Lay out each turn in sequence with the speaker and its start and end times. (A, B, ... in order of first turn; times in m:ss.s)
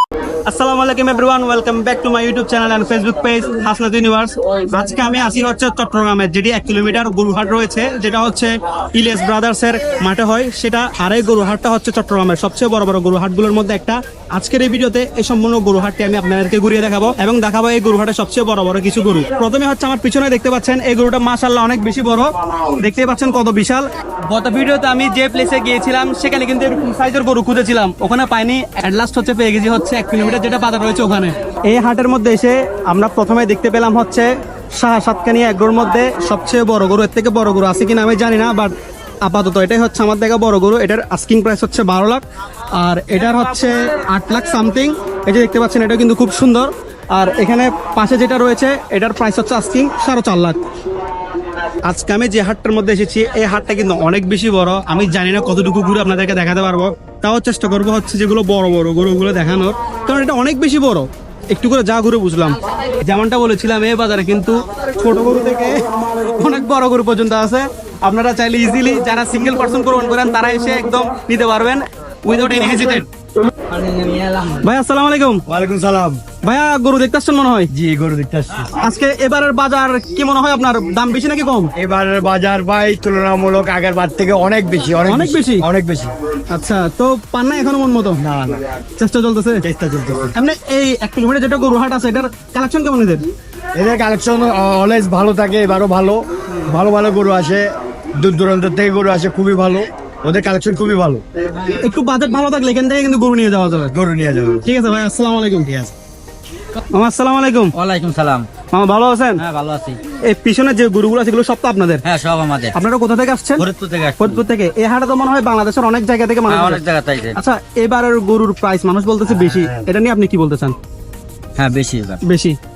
0:00.4-0:38.7 A
0:39.2-0:42.2 A
0:42.8-0:50.6 A
0:51.8-1:13.1 A
1:13.7-1:14.5 B
1:14.6-1:15.4 A
1:15.5-1:16.2 C
1:16.4-1:17.7 A
1:17.7-1:18.7 C
1:18.7-1:21.7 A
1:21.8-1:26.1 C
1:25.1-1:25.6 A
1:26.5-1:28.2 A
1:28.2-1:28.6 C
1:29.0-1:29.6 A
1:29.6-1:30.3 C
1:30.3-1:33.2 A
1:33.7-1:41.2 C
1:41.6-1:43.9 A
1:43.9-1:44.7 C
1:44.6-1:45.7 A
1:46.9-1:47.7 A
1:47.7-1:48.5 B
1:48.7-1:49.4 A
1:49.4-1:50.0 B
1:50.2-1:52.0 A
1:52.0-1:52.7 B
1:52.7-1:53.6 A
1:53.6-1:54.4 B
1:54.2-1:56.8 A
1:56.5-1:57.4 B
1:57.4-2:00.7 A
1:59.4-1:59.8 B
2:01.6-2:02.2 B
2:02.2-2:02.6 A